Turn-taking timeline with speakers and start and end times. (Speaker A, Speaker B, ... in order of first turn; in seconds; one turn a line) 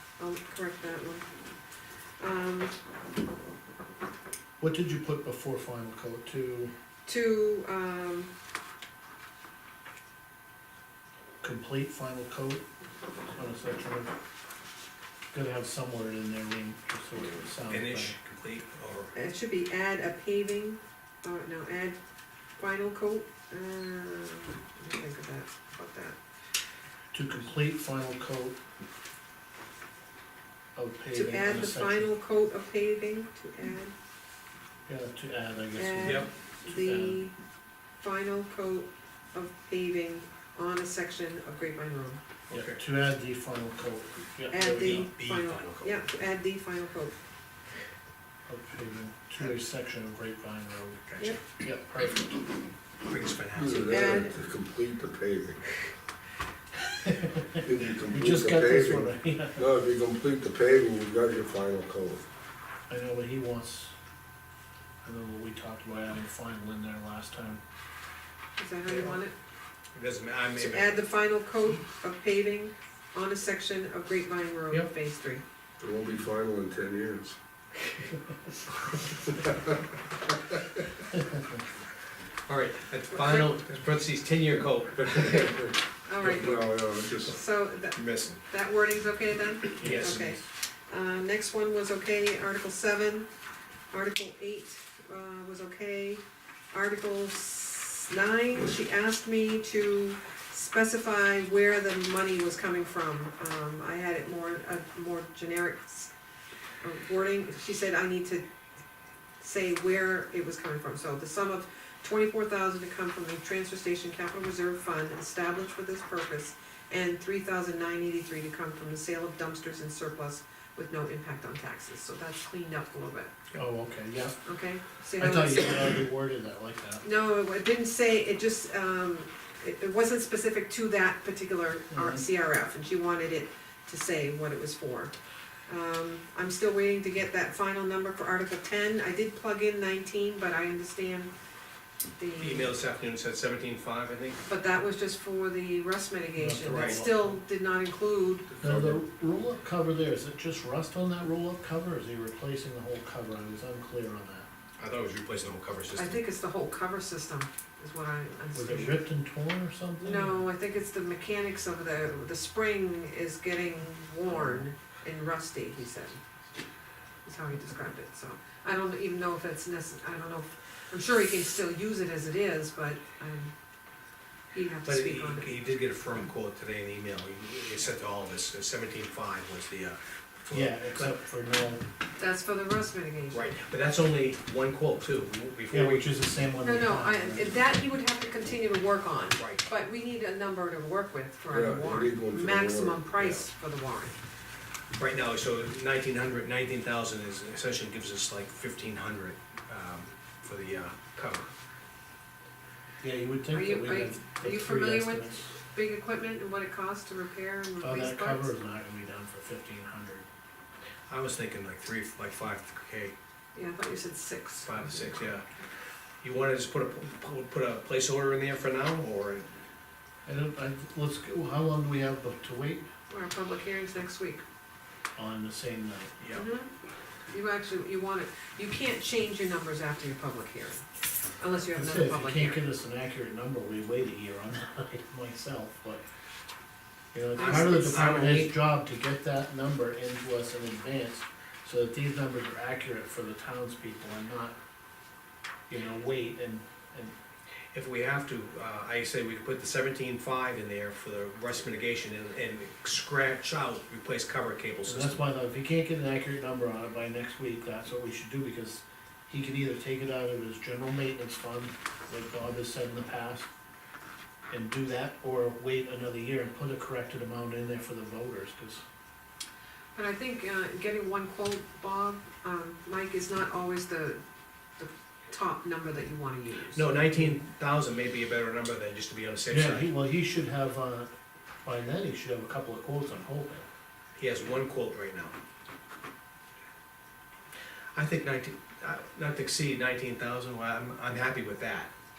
Speaker A: 0.2-1.2
Speaker A: 2.2-2.7
Speaker B: 4.6-6.7
Speaker A: 7.1-8.3
Speaker B: 11.4-12.6
Speaker B: 13.3-14.1
Speaker B: 15.3-18.1
Speaker C: 17.7-19.1
Speaker A: 19.1-22.0
Speaker A: 22.6-26.2
Speaker B: 27.1-28.6
Speaker B: 30.8-32.1
Speaker A: 31.1-33.9
Speaker B: 34.9-37.2
Speaker A: 35.8-37.4
Speaker A: 38.0-42.2
Speaker C: 42.5-42.8
Speaker B: 42.5-45.1
Speaker A: 44.5-47.1
Speaker C: 45.0-46.0
Speaker B: 48.5-51.0
Speaker C: 51.1-51.4
Speaker B: 51.6-52.5
Speaker C: 53.1-53.9
Speaker D: 53.6-55.6
Speaker A: 53.7-54.3
Speaker B: 57.0-59.6
Speaker D: 57.6-62.2
Speaker B: 62.9-63.9
Speaker B: 65.0-67.6
Speaker A: 68.6-69.3
Speaker C: 68.9-69.2
Speaker C: 70.0-71.0
Speaker A: 70.6-75.4
Speaker D: 75.8-77.4
Speaker D: 79.4-79.6
Speaker C: 82.5-85.8
Speaker A: 83.1-83.5
Speaker A: 86.1-86.5
Speaker D: 86.2-87.4
Speaker C: 86.3-87.3
Speaker A: 87.3-93.3
Speaker C: 88.0-88.4
Speaker C: 89.8-90.3
Speaker B: 89.8-90.4
Speaker A: 93.9-106.1
Speaker A: 106.8-108.5
Speaker A: 109.4-123.3
Speaker B: 123.5-124.4
Speaker A: 124.4-126.0
Speaker B: 125.2-127.0
Speaker A: 127.0-135.2
Speaker B: 131.9-132.2
Speaker A: 135.7-141.3
Speaker A: 142.2-142.7
Speaker C: 142.4-144.4
Speaker A: 144.5-148.5
Speaker B: 146.4-147.4
Speaker C: 146.7-147.0
Speaker D: 148.6-149.0
Speaker B: 148.6-154.5
Speaker C: 154.8-156.2
Speaker A: 156.0-159.1
Speaker B: 158.5-160.5
Speaker A: 160.0-166.2
Speaker B: 164.4-164.7
Speaker A: 167.2-173.5
Speaker A: 174.5-175.6
Speaker C: 174.9-181.1
Speaker B: 180.5-181.8
Speaker A: 182.2-183.5
Speaker C: 183.3-186.1
Speaker B: 185.7-187.6
Speaker A: 186.6-194.2
Speaker C: 189.4-189.7
Speaker D: 191.5-193.1
Speaker C: 195.0-201.5
Speaker B: 203.0-205.5
Speaker A: 203.5-208.5
Speaker B: 207.8-210.3
Speaker C: 211.1-213.2
Speaker A: 213.6-215.2
Speaker C: 214.7-215.4
Speaker C: 216.2-219.5
Speaker B: 220.3-222.9
Speaker A: 223.1-224.4
Speaker B: 225.2-226.2
Speaker C: 226.2-226.5
Speaker A: 226.3-226.7
Speaker A: 227.3-230.8
Speaker A: 231.4-232.7
Speaker B: 231.7-236.0
Speaker B: 237.1-244.6
Speaker A: 237.3-238.2
Speaker C: 237.4-238.6
Speaker B: 245.7-247.1
Speaker C: 247.7-255.2
Speaker B: 254.8-263.5
Speaker B: 264.5-268.8
Speaker A: 270.0-274.2
Speaker A: 274.8-276.9
Speaker C: 276.7-279.9
Speaker B: 279.5-281.1
Speaker B: 281.6-283.7
Speaker C: 284.2-285.4
Speaker C: 287.9-291.9